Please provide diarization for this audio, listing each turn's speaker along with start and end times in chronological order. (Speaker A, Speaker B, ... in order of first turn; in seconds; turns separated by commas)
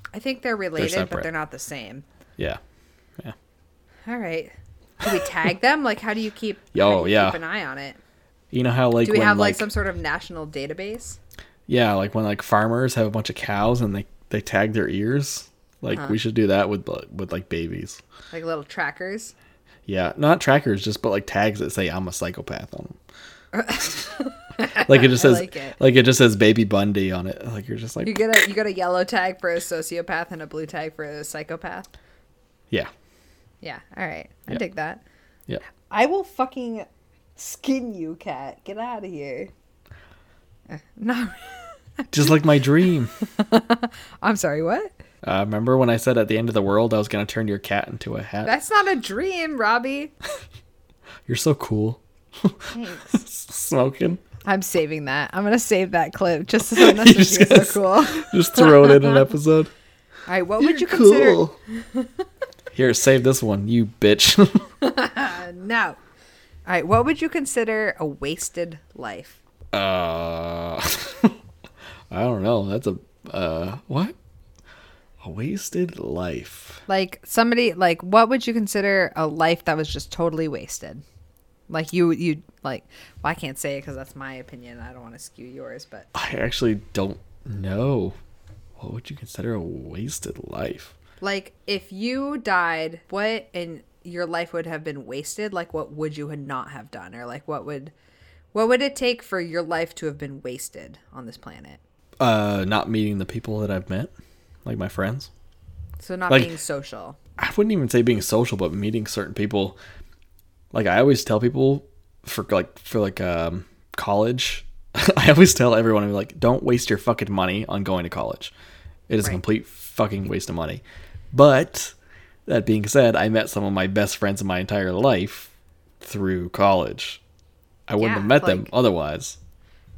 Speaker A: 0.1-2.0, Speaker B: 0.8-1.3, Speaker A: 4.1-8.0, Speaker B: 6.7-7.4, Speaker B: 8.5-9.7, Speaker A: 9.0-11.2, Speaker B: 11.7-18.0, Speaker A: 15.9-16.2, Speaker A: 18.3-19.3, Speaker B: 19.9-23.0, Speaker A: 23.5-25.8, Speaker B: 24.9-28.2, Speaker A: 28.0-31.9, Speaker A: 33.6-35.0, Speaker A: 35.9-39.5, Speaker A: 40.7-42.5, Speaker B: 42.1-43.1, Speaker A: 43.2-44.9, Speaker B: 45.2-48.5, Speaker A: 48.4-50.1, Speaker B: 51.3-54.2, Speaker A: 52.7-53.2, Speaker A: 54.5-59.2, Speaker B: 56.8-59.7, Speaker A: 60.3-62.1, Speaker B: 60.6-61.5, Speaker B: 62.7-64.7, Speaker A: 64.8-66.0, Speaker A: 66.7-69.4, Speaker B: 69.7-71.4, Speaker B: 72.1-74.2, Speaker B: 75.2-76.8, Speaker A: 76.9-81.0, Speaker A: 81.7-86.1, Speaker B: 86.2-88.2, Speaker B: 88.8-91.0, Speaker A: 91.2-97.9, Speaker A: 98.5-101.8, Speaker B: 102.2-104.1, Speaker B: 104.7-105.3, Speaker A: 106.0-107.2, Speaker B: 107.4-109.8, Speaker B: 110.7-118.5, Speaker B: 119.1-122.0, Speaker B: 122.5-127.2, Speaker B: 127.9-129.4, Speaker A: 128.0-128.7